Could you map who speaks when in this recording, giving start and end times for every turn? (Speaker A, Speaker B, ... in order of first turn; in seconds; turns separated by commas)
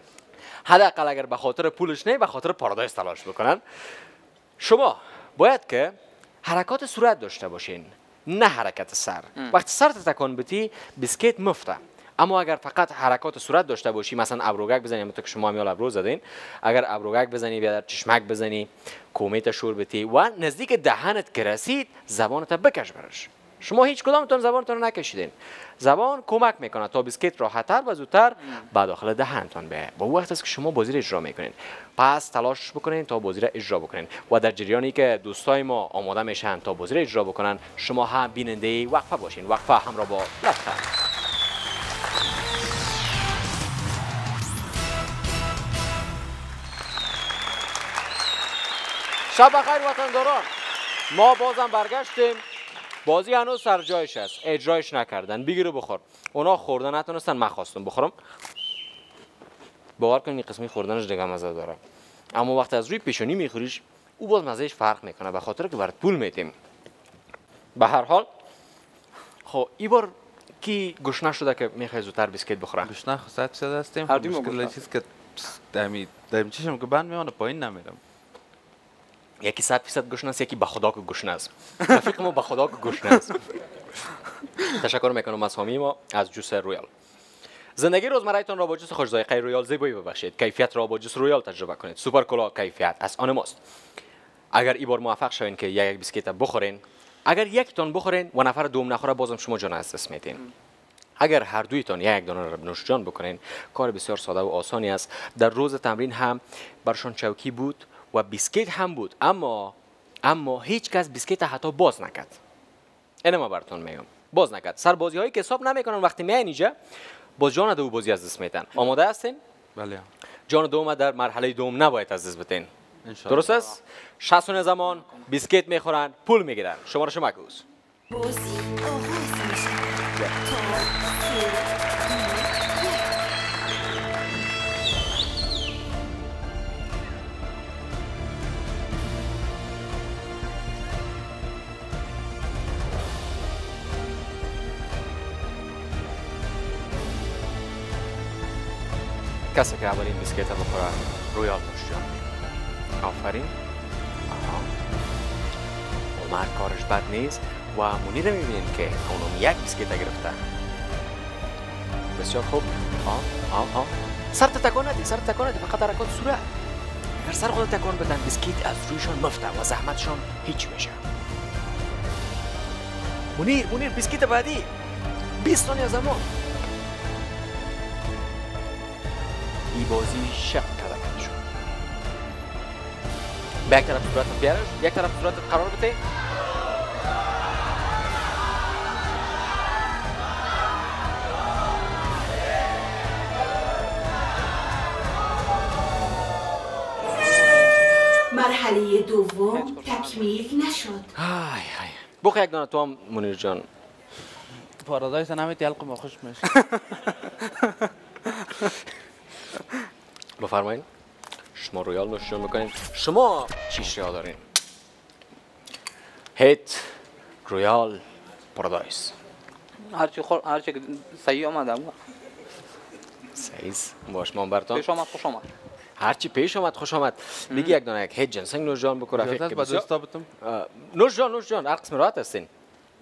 Speaker A: 0.6-3.6, Speaker A: 4.6-40.9, Speaker A: 49.3-50.5, Speaker A: 51.1-52.4, Speaker A: 53.0-58.1, Speaker A: 60.0-61.8, Speaker A: 62.3-66.5, Speaker A: 67.8-68.3, Speaker A: 69.4-72.9, Speaker B: 72.8-78.0, Speaker C: 74.1-74.8, Speaker A: 79.4-83.5, Speaker A: 84.6-86.9, Speaker A: 87.8-93.6, Speaker A: 94.5-100.4, Speaker A: 101.2-112.4, Speaker A: 113.2-116.7, Speaker A: 117.4-119.4, Speaker B: 119.8-120.1, Speaker A: 120.5-122.7, Speaker B: 123.0-123.7, Speaker A: 123.3-127.6, Speaker D: 128.1-133.0, Speaker A: 149.5-152.3, Speaker A: 153.0-153.5, Speaker A: 154.3-154.7, Speaker A: 156.2-160.4, Speaker A: 162.2-166.5, Speaker A: 167.2-171.0, Speaker A: 173.3-174.7, Speaker A: 175.4-176.2, Speaker A: 179.7-181.4, Speaker A: 183.7-186.0, Speaker D: 198.3-201.1, Speaker C: 199.5-200.3, Speaker A: 201.1-203.7, Speaker B: 204.8-206.6, Speaker A: 210.4-210.8, Speaker A: 211.5-214.4, Speaker A: 216.3-218.0, Speaker A: 218.5-219.2, Speaker C: 219.9-221.9, Speaker A: 223.3-224.9, Speaker C: 224.7-225.5, Speaker A: 226.0-229.9, Speaker C: 227.5-227.8, Speaker B: 229.2-230.3, Speaker A: 230.4-232.5